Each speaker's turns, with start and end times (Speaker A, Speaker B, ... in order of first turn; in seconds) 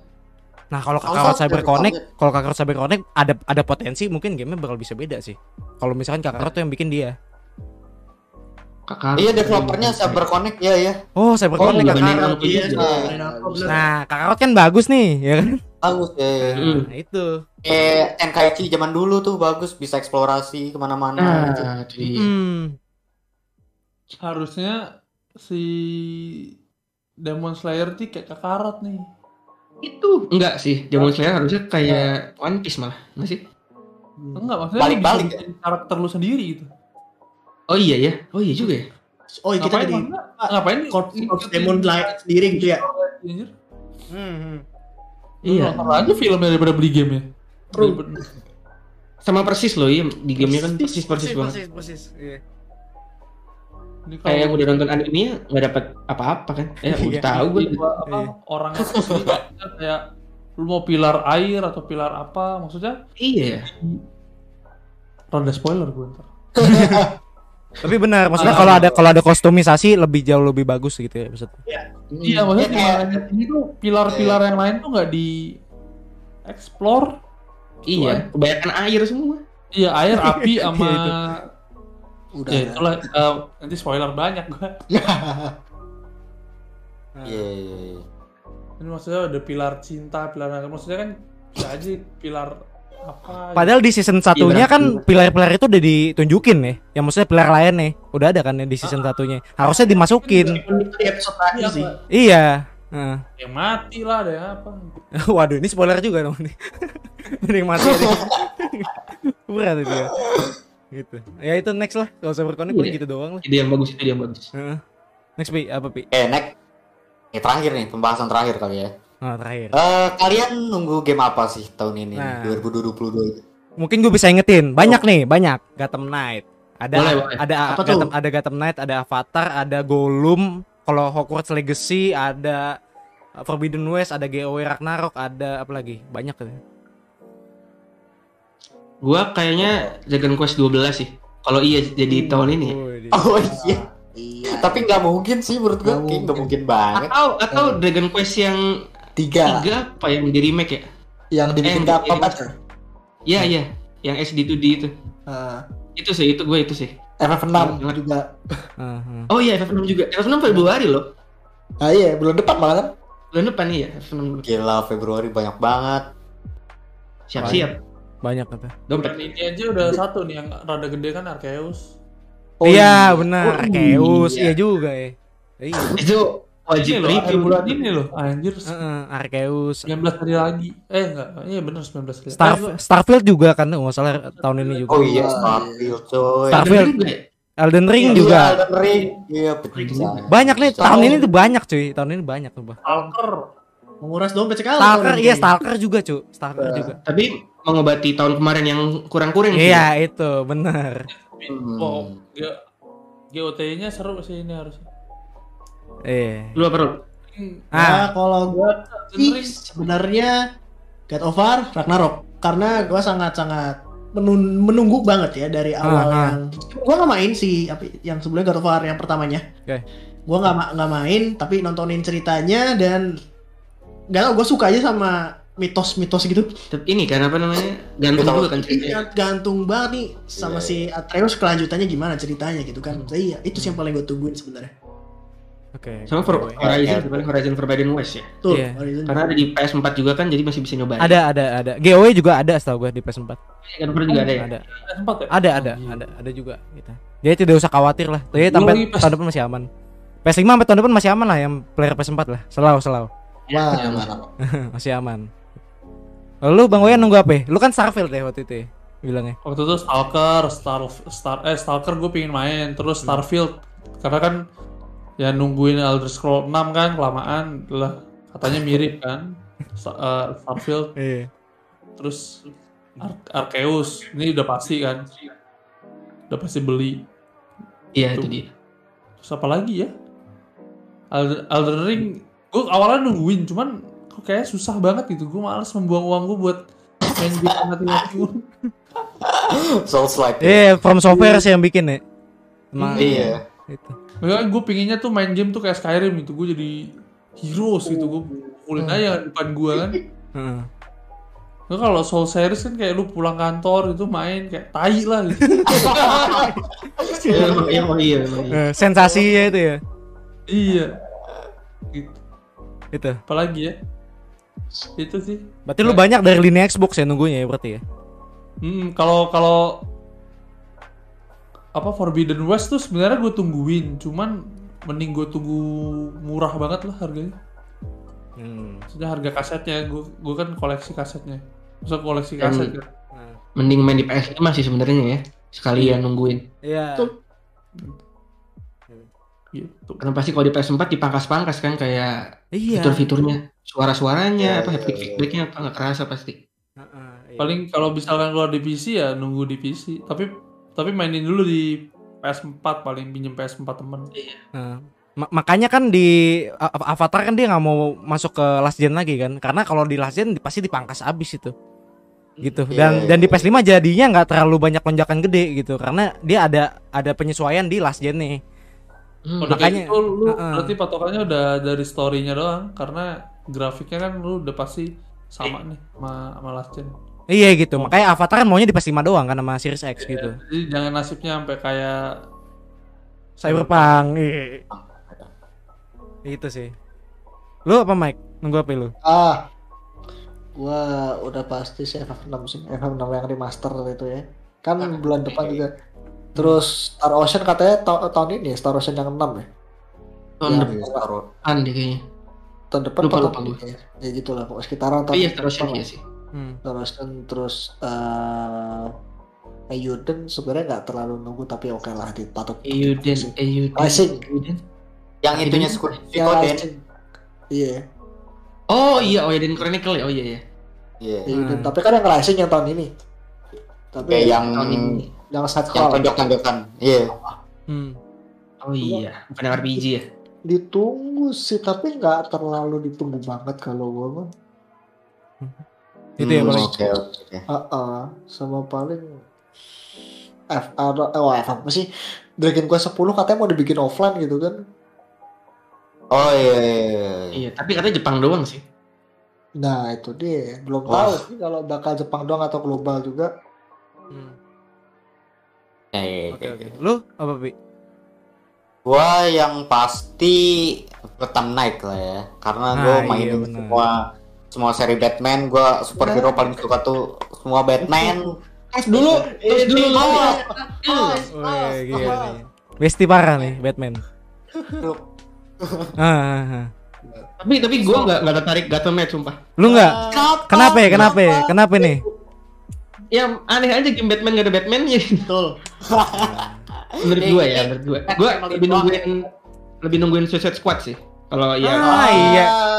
Speaker A: 0.7-7.1, 11.2-12.6, 13.7-15.5, 16.4-17.3, 22.1-22.8, 44.1-44.6, 51.1-52.4, 56.9-57.2, 66.6-67.0, 67.8-71.6, 80.1-81.1, 87.2-87.5, 93.5-100.6, 102.1-103.2, 105.2-110.1, 110.9-113.4, 114.5-114.8, 115.4-116.0, 119.2-119.8, 122.2-122.6, 123.8-132.7, 133.4-136.6, 142.6-143.2, 158.8-159.3, 167.4-167.7, 168.2-168.7, 172.7-176.0, 178.7-179.9, 182.3-185.2, 186.5-186.9, 187.6-188.6, 190.3-192.8, 194.8-197.0, 199.5-201.1, 206.1-206.7, 207.7-208.1, 215.8-216.4, 232.9-233.8, 235.8-236.6, 238.5-238.8, 241.0-243.4, 244.3-244.6, 245.3-249.7, 250.2-253.1, 254.5-255.2, 256.4-259.4, 271.0-271.3, 290.4-292.0, 292.7-294.0, 300.4-300.7, 307.3-307.7, 308.5-309.8, 312.9-313.2, 315.7-317.8, 328.4-328.8, 333.1-333.4, 336.7-337.1, 342.5-343.0, 346.8-347.6, 354.6-361.5, 362.4-368.4, 369.5-370.7, 377.3-380.4, 383.4-384.6, 386.3-386.7, 387.7-388.9, 406.3-406.6, 421.3-421.7, 427.7-428.0, 436.2-436.7, 456.3-457.5, 462.7-463.8, 471.3-474.0, 476.0-476.7, 479.6-482.0, 486.1-486.6, 491.8-492.5
Speaker B: 1.1-2.0, 9.2-11.0, 15.8-16.6, 17.6-21.7, 34.8-35.4, 68.7-69.0, 72.6-73.2, 74.1-74.4, 87.3-88.0, 107.8-108.3, 116.1-116.5, 117.3-118.9, 119.8-123.4, 139.6-139.9, 143.1-143.8, 144.5-147.1, 164.5-166.0, 184.9-186.8, 188.0-191.2, 196.6-196.9, 201.5-202.2, 228.2-228.6, 230.4-230.8, 236.6-237.2, 256.7-257.0, 289.3-290.6, 293.0-293.4, 305.7-306.5, 307.1-307.9, 344.4-345.2, 362.7-363.4, 384.7-385.3, 395.3-395.6, 400.5-401.2, 415.2-416.6, 421.0-421.3, 424.1-424.9, 425.7-427.1, 436.2-437.4, 446.1-447.3, 450.9-451.2, 455.9-456.7, 458.9-464.0, 464.5-468.3, 469.9-472.4, 475.6-475.9, 479.7-481.9, 485.9-486.5, 487.1-489.2, 491.8-492.6
Speaker C: 8.9-10.2, 11.6-12.9, 16.6-16.9, 21.2-22.3, 29.8-33.4, 37.7-38.9, 45.5-46.1, 49.3-51.6, 54.3-57.8, 63.2-63.7, 77.9-79.4, 94.4-95.0, 112.7-114.5, 126.9-127.8, 139.0-142.8, 146.9-148.6, 149.4-150.9, 151.6-152.4, 153.3-154.9, 156.0-156.9, 157.6-158.0, 159.3-161.0, 163.3-164.5, 167.3-167.8, 168.9-169.3, 174.0-174.6, 175.9-177.8, 186.5-187.2, 189.7-190.2, 197.1-199.9, 206.6-207.0, 226.7-229.0, 236.1-238.3, 239.1-241.2, 243.7-244.5, 253.5-254.1, 278.0-278.5, 305.9-306.2, 307.3-308.6, 332.4-332.7, 333.6-336.4, 340.0-342.1, 342.7-346.4, 354.1-354.4, 369.3-369.6, 400.4-400.7, 401.4-402.0, 403.0-403.6, 405.1-406.0, 412.6-414.6, 415.4-416.0, 418.7-420.4, 424.5-425.0, 428.6-430.0, 447.4-448.6, 468.7-470.4, 477.4-479.5, 483.1-485.2, 487.0-489.2, 489.8-491.9
Speaker D: 11.6-13.8, 39.4-42.8, 100.3-101.9, 127.7-128.1, 194.0-195.5, 207.8-210.3, 211.1-219.4, 220.3-223.0, 224.1-226.5, 228.7-234.7, 238.4-239.2, 485.3-485.6
Speaker E: 12.6-13.8, 66.7-67.1, 72.2-72.5, 82.3-82.8, 84.9-85.5, 142.1-142.4, 143.4-144.9, 145.8-146.5, 147.5-147.8, 149.2-149.7, 151.3-152.5, 155.3-155.6, 157.2-158.6, 161.8-162.9, 172.6-174.1, 185.0-185.9, 253.5-254.3, 389.1-389.4, 390.6-395.7, 396.4-399.4, 400.5-401.0, 402.7-405.8, 406.7-408.9, 409.7-414.2, 416.1-416.8, 421.3-422.9, 423.9-424.7, 425.3-426.1, 430.5-434.2, 436.4-436.7, 437.5-439.0, 440.5-441.9, 442.4-444.6, 449.6-453.3, 466.0-466.3, 469.0-470.3, 470.8-471.2, 491.7-492.4
Speaker F: 24.2-24.8, 25.4-26.2, 27.2-29.1, 31.0-31.3, 34.4-36.7, 39.6-43.5, 45.4-48.2, 50.5-50.9, 54.1-54.7, 57.2-60.0, 60.6-63.0, 63.7-64.0, 65.3-66.3, 68.4-68.8, 72.2-75.3, 76.5-77.1, 77.9-78.2, 79.8-81.1, 82.5-84.7, 88.8-92.5, 93.1-93.8, 98.8-99.1, 99.7-100.8, 101.5-101.9, 103.4-105.0, 168.9-171.9, 176.8-178.7, 179.9-182.7, 184.4-184.9, 192.8-193.4, 201.1-202.6, 203.3-204.8, 207.3-207.6, 208.5-209.6, 244.1-246.0, 248.3-249.2, 259.5-264.4, 265.2-269.2, 269.8-270.9, 272.0-272.4, 273.0-275.1, 276.3-277.0, 279.2-279.9, 281.1-286.6, 287.2-288.4, 292.8-293.2, 294.2-296.7, 297.4-300.0, 301.7-305.6, 310.5-310.9, 311.9-312.2, 313.3-313.7, 315.0-316.0, 318.6-319.6, 321.8-324.3, 324.9-325.6, 326.3-327.3, 328.9-332.9, 339.5-340.0, 347.4-354.1, 369.4-376.9, 380.0-382.0, 383.4-384.0